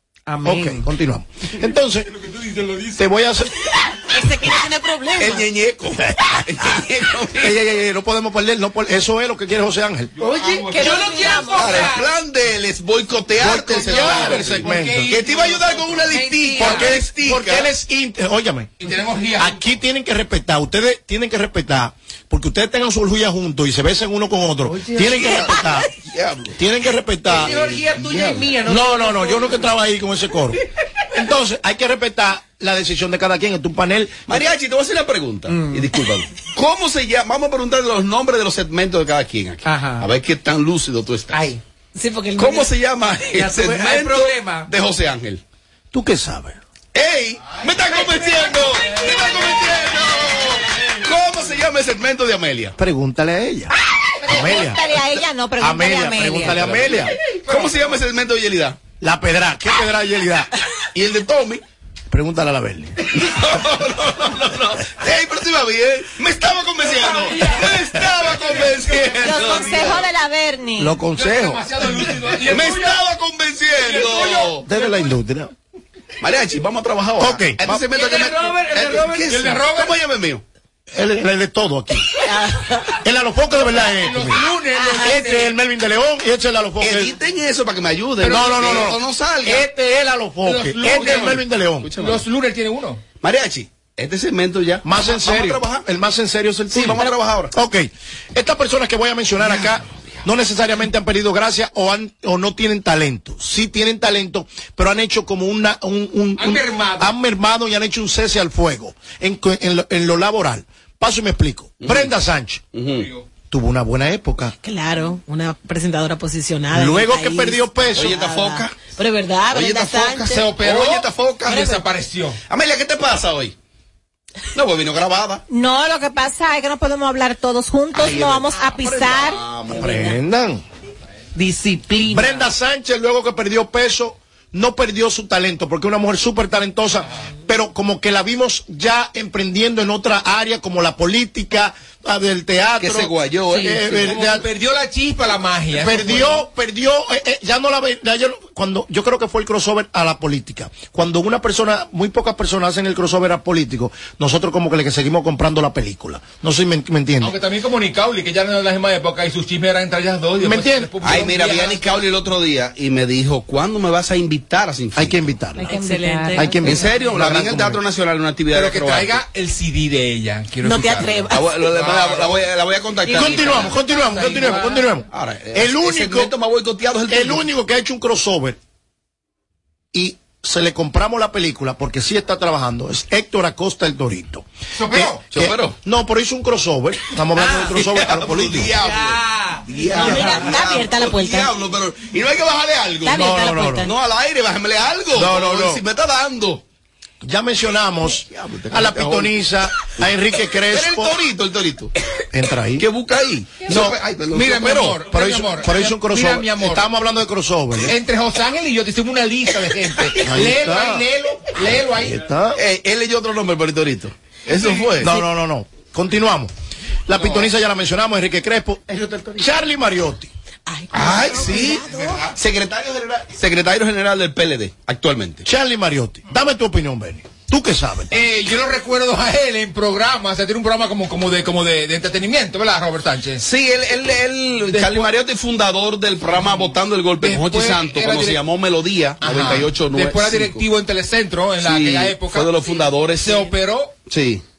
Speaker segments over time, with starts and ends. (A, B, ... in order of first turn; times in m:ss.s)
0:00.3-0:00.8 A
0:00.4-0:02.1 B
0:02.2-0:03.0 C
0:03.0-0:03.6 B
0:04.1-0:05.5 D
0:05.1-0:07.6 E
0:07.3-0:10.1 B
0:10.2-0:11.9 C
0:10.2-0:12.1 A
0:10.8-0:11.6 F
0:11.5-0:17.7 E
0:13.4-0:15.1 B
0:13.6-0:16.9 C
0:16.1-0:17.0 A
0:16.6-0:18.8 B
0:18.8-0:19.7 C
0:19.4-0:25.9 B
0:24.6-0:25.4 A
0:25.9-0:26.6 E
0:26.6-0:27.6 B
0:27.3-0:29.6 A
0:27.3-0:28.5 E
0:28.6-0:30.6 B
0:31.1-0:34.4 B
0:34.3-0:41.5 E
0:35.5-0:36.0 A
0:39.6-0:40.1 A
0:41.3-0:41.6 A
0:42.0-0:42.8 D
0:42.4-0:45.4 E
0:43.3-0:44.7 A
0:45.9-0:46.6 B
0:46.9-0:52.8 E
0:47.6-0:49.6 C
0:52.8-0:53.7 B
0:54.2-0:56.7 F
0:54.3-0:54.8 B
0:55.6-0:57.1 B
0:56.5-0:58.8 E
0:57.5-0:57.9 C
0:59.0-1:00.5 B
1:00.9-1:01.6 E
1:02.1-1:03.1 B
1:03.1-1:10.1 E
1:07.3-1:09.3 C
1:09.2-1:11.0 F
1:10.8-1:11.6 B
1:11.2-1:13.0 C
1:12.5-1:14.7 E
1:13.8-1:14.8 C
1:14.6-1:15.5 B
1:16.2-1:20.4 E
1:17.2-1:17.8 B
1:17.8-1:19.6 A
1:19.2-1:20.0 C
1:20.9-1:22.2 B
1:22.2-1:23.0 D
1:23.0-1:24.5 B
1:23.8-1:25.5 C
1:24.8-1:25.1 D
1:25.0-1:27.1 B
1:26.8-1:29.6 E
1:28.2-1:28.9 C
1:28.2-1:31.9 B
1:30.4-1:31.4 C
1:30.8-1:32.2 E
1:32.0-1:33.0 C
1:33.2-1:35.8 E
1:34.8-1:52.6 B
1:36.7-1:37.5 E
1:46.4-1:47.1 C
1:51.8-1:52.1 E
1:52.7-1:53.1 E
1:52.9-1:53.2 C
1:53.5-1:54.6 B
1:54.6-2:00.4 D
1:56.7-1:58.2 B
1:57.9-1:58.9 E
1:59.5-2:01.8 E
2:00.2-2:02.4 C
2:02.5-2:03.5 E
2:04.5-2:05.4 E
2:05.5-2:09.4 F
2:08.0-2:10.0 E
2:09.7-2:10.6 B
2:09.8-2:10.1 D
2:11.4-2:12.5 A
2:12.1-2:24.4 B
2:22.8-2:24.2 E
2:23.5-2:23.9 A
2:24.0-2:26.4 C
2:25.7-2:37.4 B
2:37.2-2:42.0 C
2:40.4-2:40.9 B
2:41.0-2:45.2 E
2:45.0-2:45.7 B
2:45.6-2:47.1 D
2:45.6-2:46.6 F
2:46.3-2:47.8 B
2:46.6-2:49.2 E
2:48.5-2:52.4 C
2:50.6-2:51.6 D
2:51.3-2:53.8 E
2:53.1-2:54.8 C
2:53.1-2:56.3 B
2:55.1-2:57.5 E
2:57.1-2:58.6 B
2:59.9-3:08.8 B
3:04.8-3:05.2 C
3:05.3-3:05.8 E
3:07.4-3:07.8 A
3:07.8-3:16.6 E
3:08.7-3:10.4 A
3:09.9-3:11.6 D
3:13.0-3:13.9 D
3:13.1-3:13.9 B
3:15.1-3:15.8 B
3:17.2-3:21.2 B
3:18.2-3:19.4 E
3:20.7-3:21.9 E
3:22.3-3:22.9 B
3:22.8-3:25.0 E
3:23.6-3:24.0 B
3:24.3-3:26.9 C
3:25.0-3:28.0 B
3:27.9-3:32.2 C
3:30.2-3:31.0 B
3:32.0-3:32.6 B
3:32.6-3:35.2 E
3:35.0-3:36.5 B
3:37.1-3:40.3 B
3:37.2-3:37.5 E
3:40.7-3:42.3 D
3:40.9-3:45.5 E
3:45.4-3:48.1 B
3:48.1-3:53.4 C
3:53.4-4:00.6 E
3:54.7-3:55.1 C
3:57.2-3:58.4 C
3:59.2-4:02.6 C
4:01.6-4:03.5 E
4:03.2-4:03.9 C
4:04.1-4:04.4 E